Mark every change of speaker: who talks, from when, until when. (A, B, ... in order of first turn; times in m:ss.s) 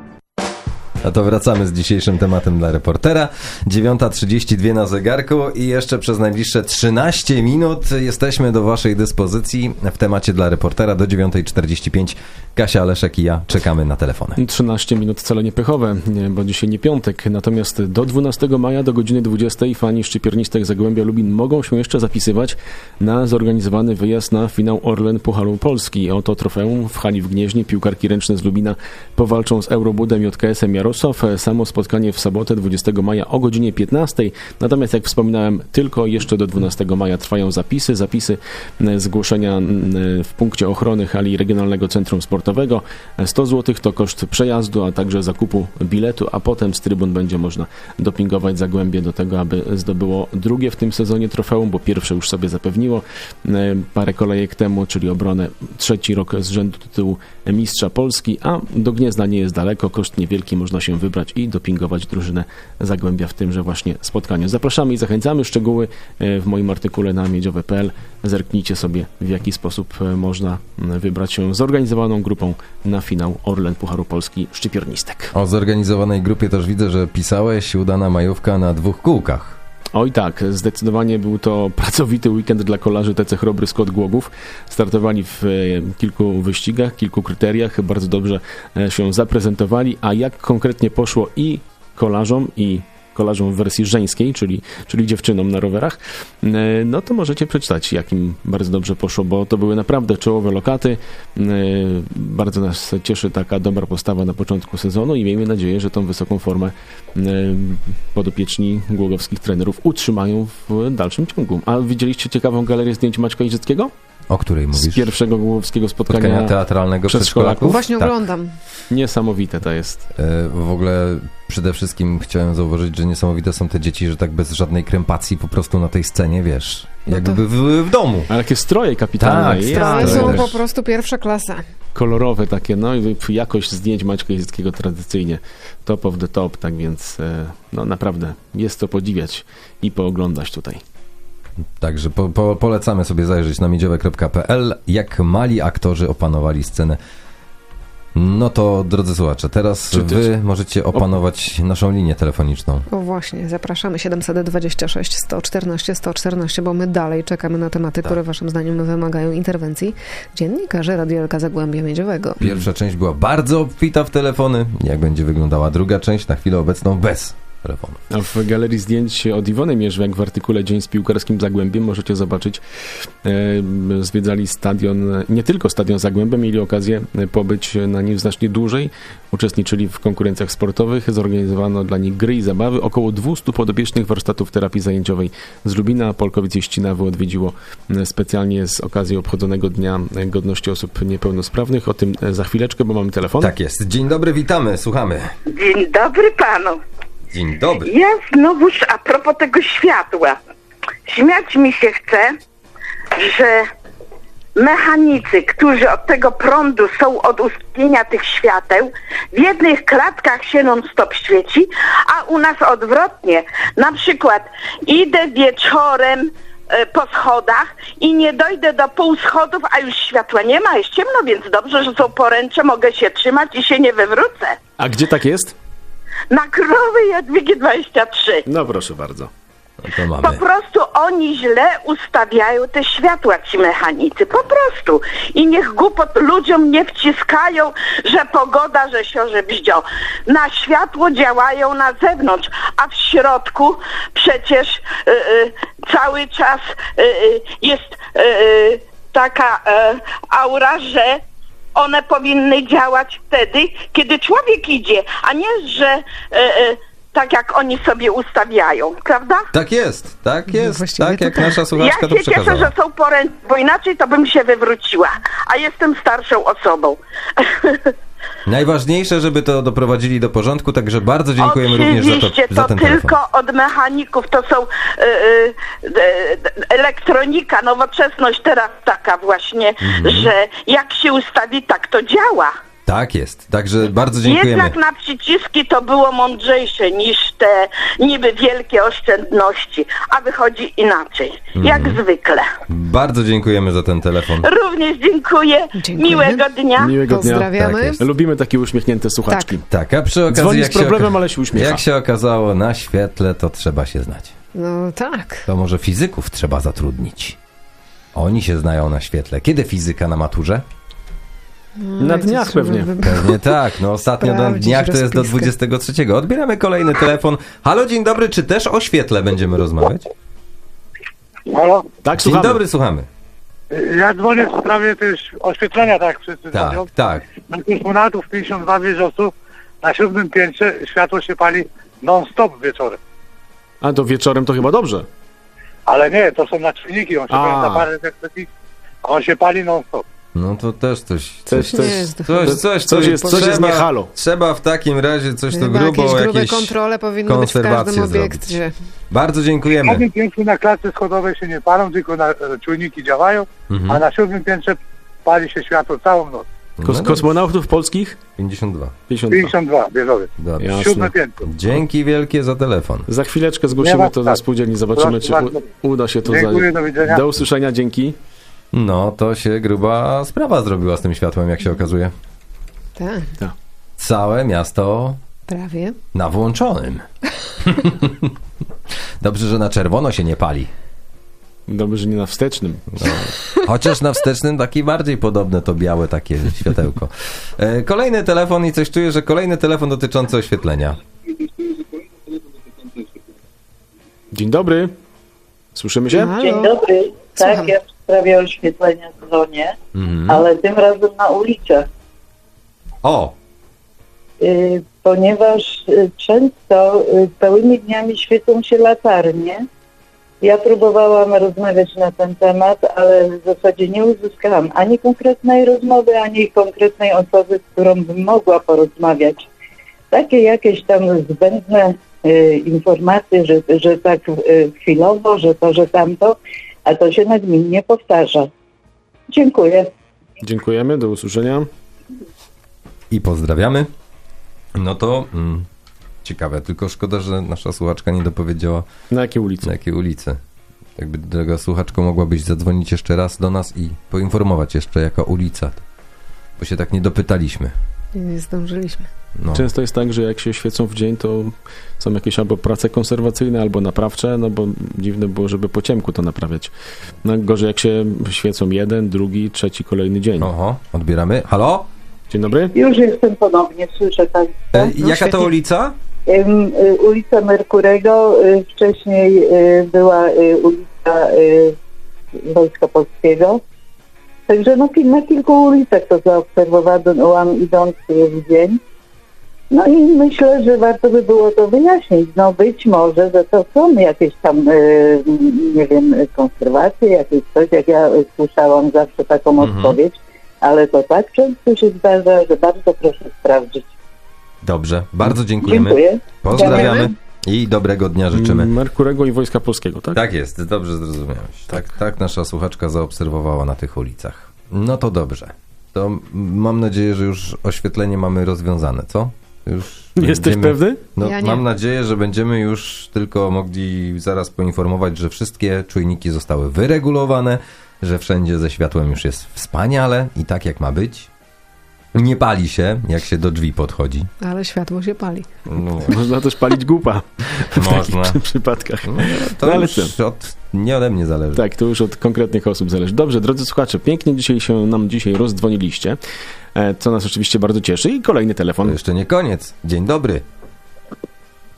0:01.0-0:14.4 A
0:14.4-1:15.3 B
1:15.3-1:19.6 A
1:19.9-1:53.9 B
1:54.3-1:55.1 A
1:54.8-1:56.6 B
1:56.1-1:58.2 A
1:57.1-1:57.8 B
1:57.6-1:58.6 C
1:58.9-2:00.1 B
2:00.2-2:08.3 A
2:07.1-2:07.4 C
2:08.3-2:10.5 B
2:09.2-2:10.6 A
2:09.7-2:11.6 C
2:12.0-2:20.8 B
2:21.8-2:27.0 A
2:28.2-2:32.9 A
2:29.9-2:30.3 B
2:30.9-2:31.2 B
2:32.9-2:42.5 C
2:42.4-2:48.0 A
2:48.1-2:52.6 B
2:53.2-3:13.5 B
3:13.4-3:15.3 A
3:15.5-3:16.8 D
3:17.3-3:17.9 A
3:17.8-3:20.4 D
3:21.1-3:22.4 D
3:23.2-3:23.7 D
3:24.6-3:44.6 D
3:44.8-3:45.6 B
3:46.3-3:48.4 D
3:48.5-3:49.3 B
3:49.8-3:50.4 A
3:50.2-4:11.2 D
4:11.8-4:19.5 D
4:19.5-4:22.7 A
4:20.5-4:21.6 C
4:21.8-4:27.9 D
4:28.5-4:33.2 A
4:31.4-4:42.5 D
4:39.8-4:40.3 A
4:42.9-4:44.7 A
4:44.2-4:52.5 D
4:51.6-4:52.0 A
4:52.7-4:54.5 A
4:54.4-4:56.9 D
4:55.8-4:56.4 C
4:56.8-4:59.6 B
4:57.0-4:58.0 C
4:57.5-4:58.0 A
4:59.3-4:59.6 C
4:59.7-5:04.4 A
5:00.3-5:01.8 B
5:04.6-5:05.5 C
5:05.5-5:07.4 A
5:08.1-5:10.6 A
5:11.8-5:13.5 C
5:12.0-5:12.9 B
5:13.0-5:20.1 A
5:14.2-5:15.5 C
5:21.5-5:21.9 E
5:22.0-5:22.6 B
5:22.2-5:23.1 A
5:23.7-5:26.9 E
5:26.5-5:27.2 A
5:27.5-5:33.0 E
5:33.8-5:35.1 B
5:35.9-5:38.5 E
5:37.3-5:37.9 B
5:39.0-5:40.0 E
5:40.4-5:48.6 A
5:41.5-5:44.1 B
5:41.7-5:43.8 C
5:45.5-5:48.8 C
5:49.1-5:50.1 A
5:49.8-5:56.5 E
5:53.7-5:54.0 A
5:56.8-5:57.3 A
5:56.8-5:58.2 B
5:58.4-5:59.0 A
5:59.1-5:59.5 B
5:59.3-6:01.5 E
6:00.4-6:00.7 A
6:00.6-6:01.1 B
6:01.4-6:03.1 A
6:03.1-6:08.2 B
6:03.8-6:04.4 E
6:05.0-6:05.7 E
6:06.2-6:07.3 E
6:08.7-6:12.1 A
6:13.0-6:13.3 C
6:14.0-6:15.2 A
6:15.5-6:16.0 C
6:16.1-6:17.1 A
6:17.6-6:18.3 A
6:19.2-6:20.7 A
6:21.7-6:23.3 B
6:23.0-6:31.0 A
6:34.3-6:34.9 B
6:35.8-6:36.3 B
6:36.1-6:36.8 C
6:36.3-6:39.8 F
6:37.4-6:37.7 C
6:40.0-6:40.5 A
6:40.3-6:41.9 F
6:43.0-6:43.3 A
6:44.4-6:49.6 F
6:50.4-6:59.5 F
7:00.1-7:08.5 F
7:09.3-7:09.9 F
7:10.4-7:11.7 B
7:13.1-7:13.9 A
7:14.8-7:15.7 A
7:16.2-7:18.9 A
7:19.1-7:19.7 B
7:19.6-7:20.4 A
7:21.0-7:25.8 A
7:26.6-7:27.7 A
7:28.2-7:29.1 C
7:29.4-7:29.7 A
7:29.5-7:36.7 B
7:37.2-7:40.5 B
7:40.4-7:41.9 A
7:42.3-7:42.8 B
7:42.8-7:44.7 F
7:44.7-7:46.0 A
7:44.8-7:45.5 C
7:46.3-7:51.8 F
7:52.5-7:53.6 F
7:54.5-7:58.8 F
7:59.7-8:13.9 F
8:09.6-8:10.0 A
8:14.6-8:18.7 A
8:15.6-8:16.2 F
8:16.5-8:17.1 C
8:18.3-8:20.2 B
8:20.2-8:41.3 A
8:30.2-8:31.0 B
8:31.2-8:31.6 C
8:42.1-8:44.3 A
8:44.4-8:45.5 C
8:45.7-8:46.2 A
8:46.1-8:50.1 B
8:47.8-8:48.4 A
8:49.0-8:51.6 A
8:51.5-8:56.2 B
8:56.8-8:59.0 B
8:58.8-9:00.4 A